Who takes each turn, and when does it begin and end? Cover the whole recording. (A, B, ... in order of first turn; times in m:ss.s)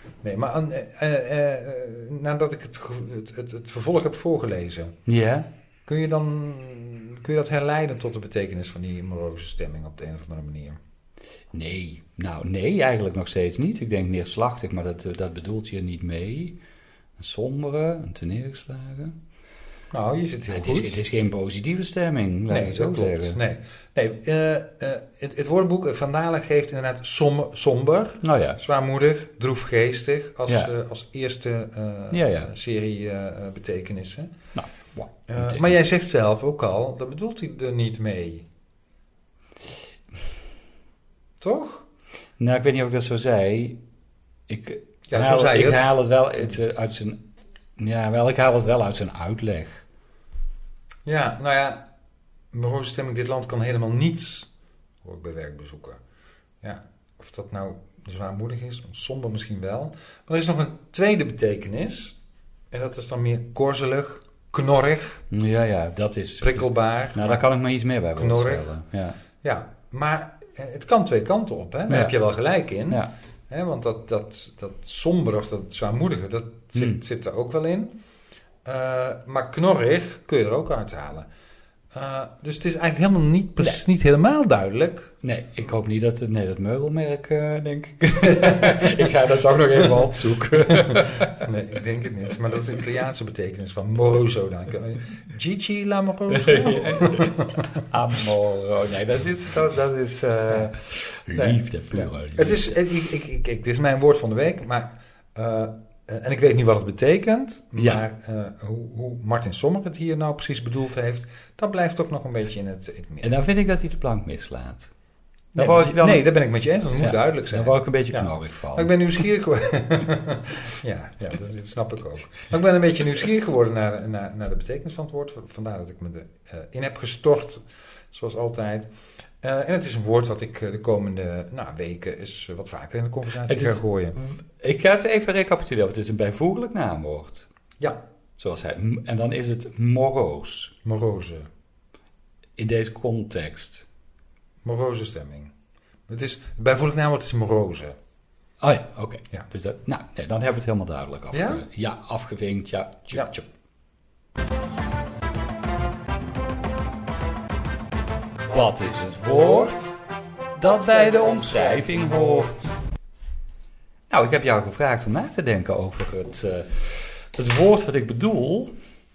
0:00.2-0:05.0 A
0:05.1-0:05.5 B
0:05.9-0:10.8 A
0:11.5-0:16.6 B
0:17.2-0:19.2 B
0:19.9-0:21.0 A
0:20.5-0:23.4 B
0:22.5-0:34.3 A
0:28.2-0:28.6 B
0:32.1-0:32.5 B
0:34.6-0:35.6 B
0:35.3-0:38.5 A
0:41.4-0:41.9 A
0:42.4-0:43.8 B
0:44.5-0:47.2 B
0:45.1-0:46.0 A
0:47.8-0:49.8 B
0:51.0-0:51.8 A
0:52.5-0:54.5 A
0:55.0-0:56.0 A
0:56.6-1:02.2 A
1:02.7-1:05.2 A
1:05.3-1:09.2 B
1:06.4-1:07.4 A
1:08.2-1:08.7 A
1:09.4-1:18.0 A
1:11.9-1:12.1 B
1:16.8-1:17.0 B
1:18.6-1:21.3 A
1:21.9-1:25.1 A
1:25.2-1:31.4 B
1:28.2-1:37.7 A
1:36.3-1:42.8 B
1:41.4-1:53.4 A
1:53.2-1:54.9 B
1:55.6-1:56.3 B
1:55.6-2:14.2 A
1:57.0-1:58.9 B
2:13.5-2:17.5 B
2:18.4-2:20.8 B
2:20.8-2:21.5 A
2:22.6-2:23.9 B
2:24.6-2:25.5 A
2:26.1-2:28.0 A
2:28.6-2:33.5 B
2:31.3-2:31.6 A
2:38.4-2:39.9 B
2:38.5-2:39.7 A
2:40.6-2:42.8 B
2:44.1-2:48.7 B